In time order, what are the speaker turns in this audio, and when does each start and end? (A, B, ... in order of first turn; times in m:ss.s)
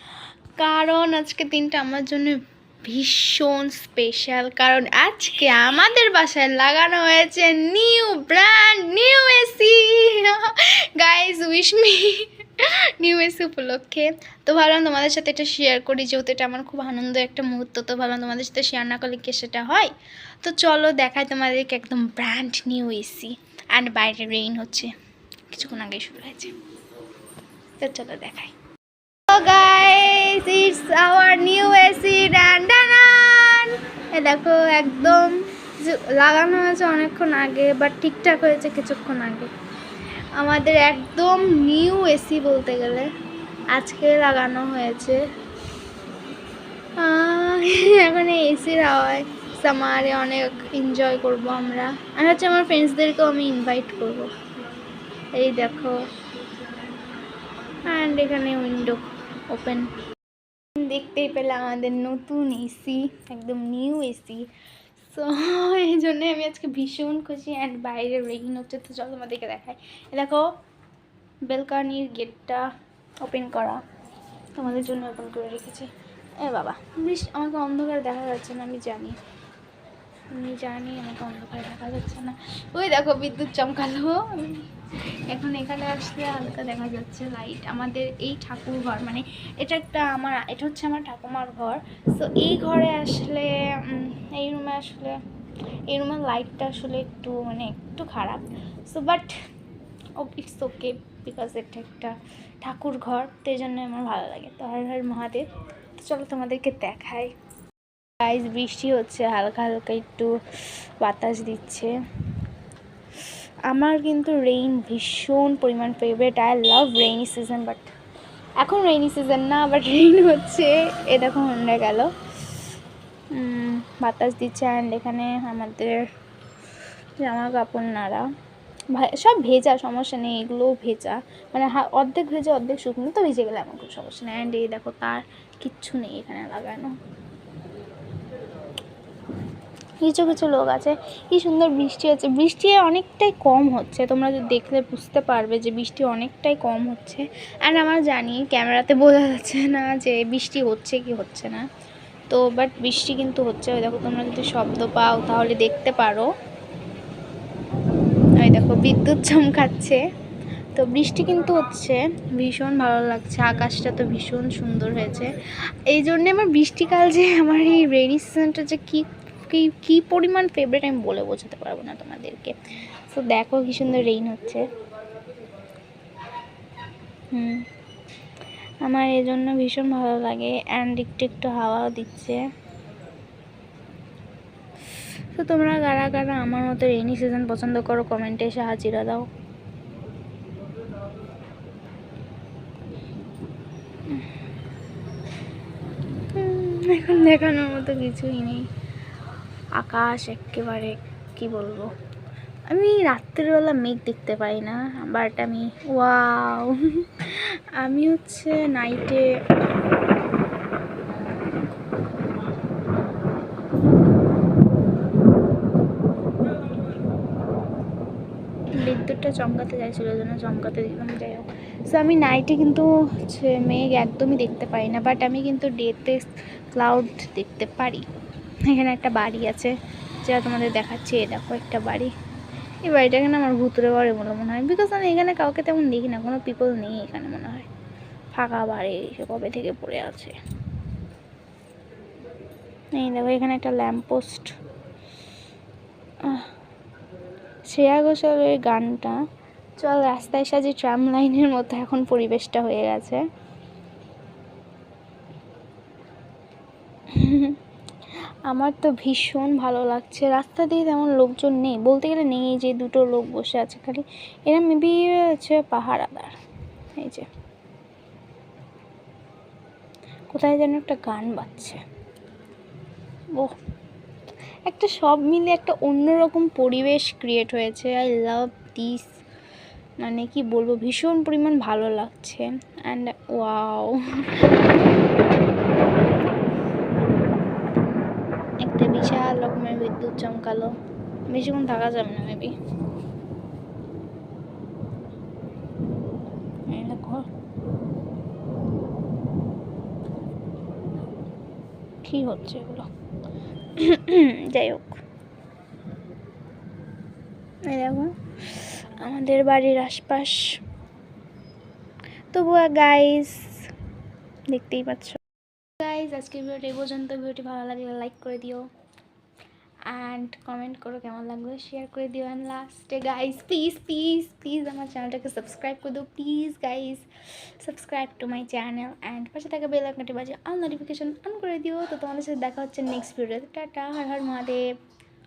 0:00.6-0:24.9 A
0:25.5-0:26.6 A
0:27.8-0:28.5 A
0:29.3-0:39.5 A
0:40.3-0:43.1 A
0:43.7-0:45.2 A
0:47.0-0:54.3 A
0:55.3-0:56.0 A
0:57.9-0:59.9 A
1:00.7-1:10.5 A
1:11.5-1:12.7 A
1:13.2-1:13.8 A
1:14.6-1:19.2 A
1:20.3-1:24.7 A
1:25.3-1:35.2 A
1:35.9-1:39.3 A
1:40.2-1:45.5 A
1:46.0-1:47.3 A
1:48.2-1:50.3 A
1:51.0-1:51.9 A
1:53.7-1:57.9 A
1:58.6-2:02.7 A
2:03.3-2:06.0 A
2:07.2-2:08.2 A
2:08.9-2:17.0 A
2:20.0-2:31.6 A
2:32.3-2:36.3 A
2:38.4-2:40.0 A
2:40.7-2:54.6 A
2:57.3-2:57.6 A
2:58.8-3:02.4 A
3:05.3-3:09.2 A
3:16.3-3:18.7 A
3:19.7-3:21.9 A
3:22.7-3:29.3 A
3:38.8-3:48.0 A
3:48.6-3:52.1 A
3:52.8-3:57.7 A
3:58.3-4:00.3 A
4:02.9-4:04.6 A
4:06.2-4:06.5 A
4:07.6-4:09.2 A
4:09.8-4:13.2 A
4:17.1-4:17.6 A
4:18.4-4:26.3 A
4:27.0-4:27.3 A
4:30.3-4:31.8 A
4:34.6-4:39.1 A
4:40.0-4:44.5 A
4:48.6-4:50.7 A
4:51.3-4:52.5 A
4:56.7-4:57.3 A
5:02.0-5:02.9 A
5:03.8-5:05.0 A
5:07.6-5:10.6 A
5:12.3-5:13.7 A
5:14.5-5:15.2 A
5:15.8-5:18.7 A
5:19.9-5:27.0 A
5:27.6-5:34.6 A